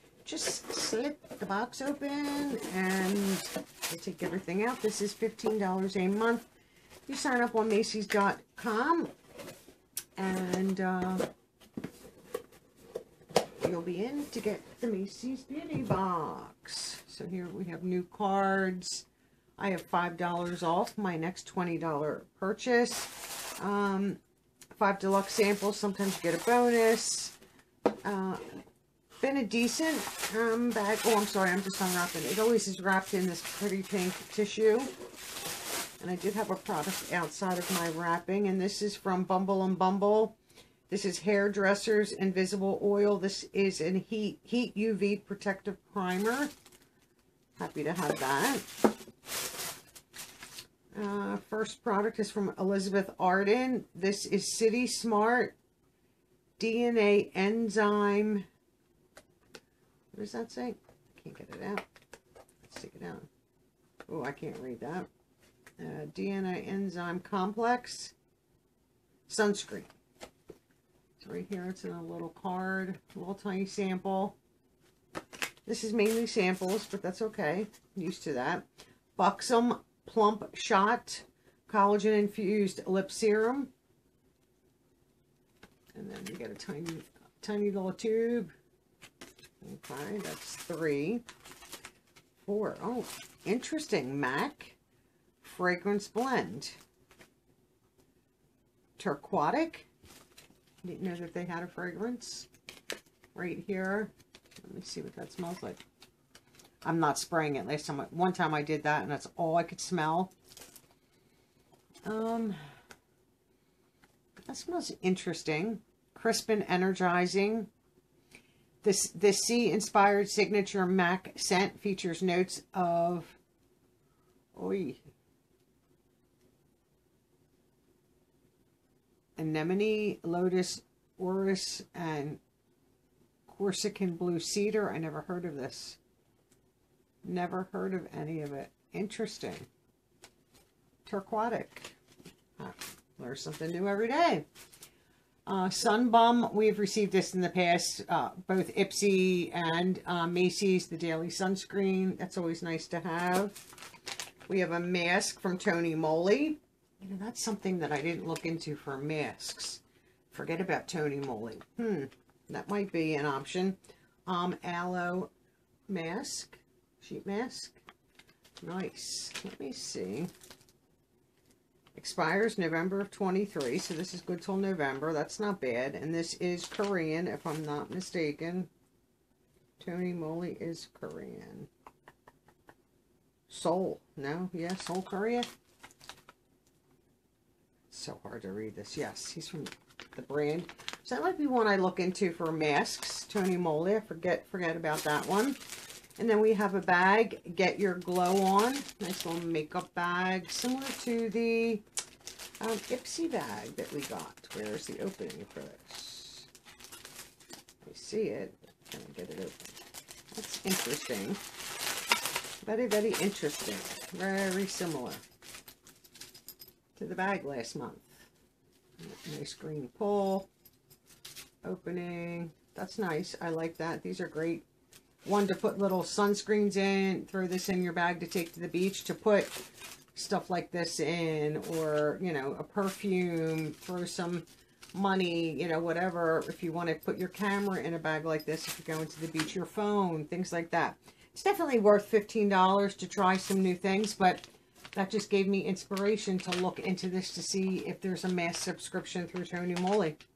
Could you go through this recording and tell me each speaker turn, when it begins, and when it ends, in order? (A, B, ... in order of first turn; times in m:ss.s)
0:00.2-0:06.4 A
0:07.1-0:09.1 A
0:10.2-0:11.3 A
0:13.6-0:19.1 A
0:19.6-0:24.2 A
0:24.8-0:27.4 A
0:28.0-0:28.6 A
0:29.2-0:34.9 A
0:36.0-0:40.4 A
0:40.9-0:46.5 A
0:47.6-0:48.7 A
0:50.9-0:55.6 A
0:56.6-0:58.5 A
1:00.1-1:01.9 A
1:02.6-1:03.3 A
1:04.1-1:05.1 A
1:05.8-1:08.2 A
1:09.3-1:09.9 A
1:11.2-1:14.4 A
1:15.7-1:23.7 A
1:26.0-1:28.5 A
1:29.6-1:31.2 A
1:32.5-1:34.8 A
1:35.4-1:36.8 A
1:39.0-1:39.9 A
1:40.8-1:42.5 A
1:43.4-1:45.8 A
1:46.8-1:50.3 A
1:52.0-1:52.6 A
1:54.5-1:57.7 A
1:58.8-2:03.4 A
2:04.5-2:05.0 A
2:09.4-2:12.4 A
2:13.5-2:16.0 A
2:17.2-2:19.7 A
2:21.1-2:22.0 A
2:22.6-2:24.4 A
2:25.5-2:33.6 A
2:34.5-2:45.3 A
2:45.9-2:47.8 A
2:48.6-2:50.3 A
2:52.0-2:58.7 A
2:59.8-3:01.7 A
3:03.5-3:05.5 A
3:07.9-3:15.6 A
3:16.2-3:21.8 A
3:22.6-3:26.5 A
3:27.8-3:29.8 A
3:30.3-3:31.4 A
3:32.6-3:35.2 A
3:37.0-3:38.3 A
3:39.0-3:40.5 A
3:41.6-3:44.6 A
3:45.2-3:49.6 A
3:50.2-4:10.2 A